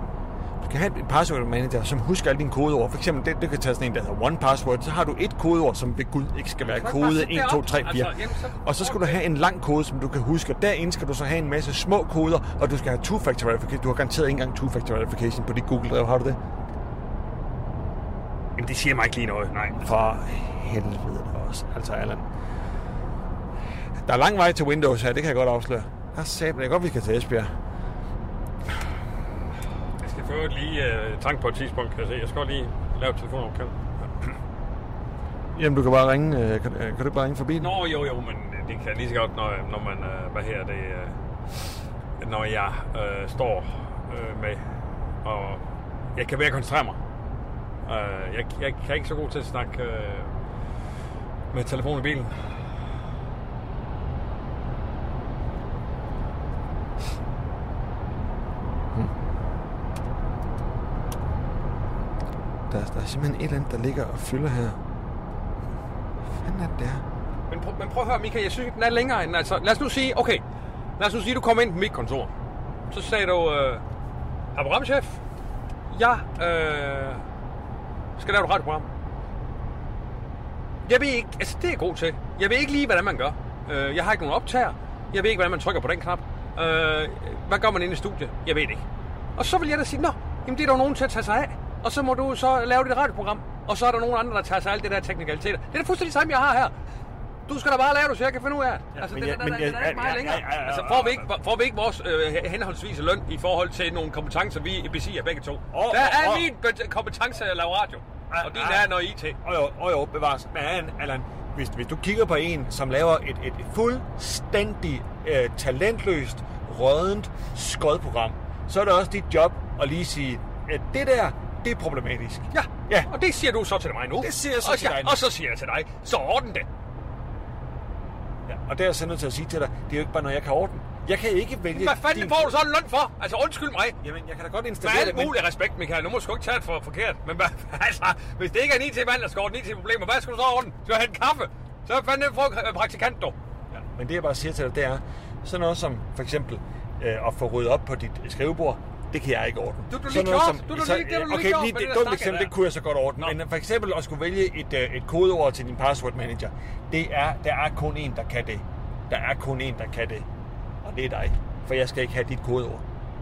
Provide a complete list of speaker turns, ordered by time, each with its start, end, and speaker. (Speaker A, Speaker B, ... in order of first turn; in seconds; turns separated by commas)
Speaker A: 0.6-16.4, Speaker B: 6.7-9.2, Speaker B: 18.6-20.0, Speaker A: 19.8-22.3, Speaker A: 24.0-27.5, Speaker B: 30.0-34.3, Speaker A: 35.5-37.8, Speaker B: 37.6-41.6, Speaker B: 42.2-44.6, Speaker B: 45.2-45.6, Speaker B: 46.1-47.0, Speaker B: 47.9-50.3, Speaker B: 51.5-52.4, Speaker A: 62.7-64.8, Speaker A: 66.2-67.0, Speaker B: 67.5-70.4, Speaker B: 71.0-72.3, Speaker B: 72.9-73.8, Speaker B: 74.5-75.2, Speaker B: 75.9-77.2, Speaker B: 78.2-78.9, Speaker B: 80.8-88.8, Speaker B: 89.4-96.7, Speaker B: 97.5-109.4, Speaker A: 98.9-101.3, Speaker A: 105.7-106.5, Speaker A: 108.3-123.1, Speaker B: 122.5-126.7, Speaker A: 124.2-125.3, Speaker A: 128.5-132.6, Speaker B: 131.7-134.0, Speaker A: 134.0-135.4, Speaker B: 134.8-143.4, Speaker A: 143.7-160.3, Speaker B: 149.9-152.5, Speaker A: 160.8-162.8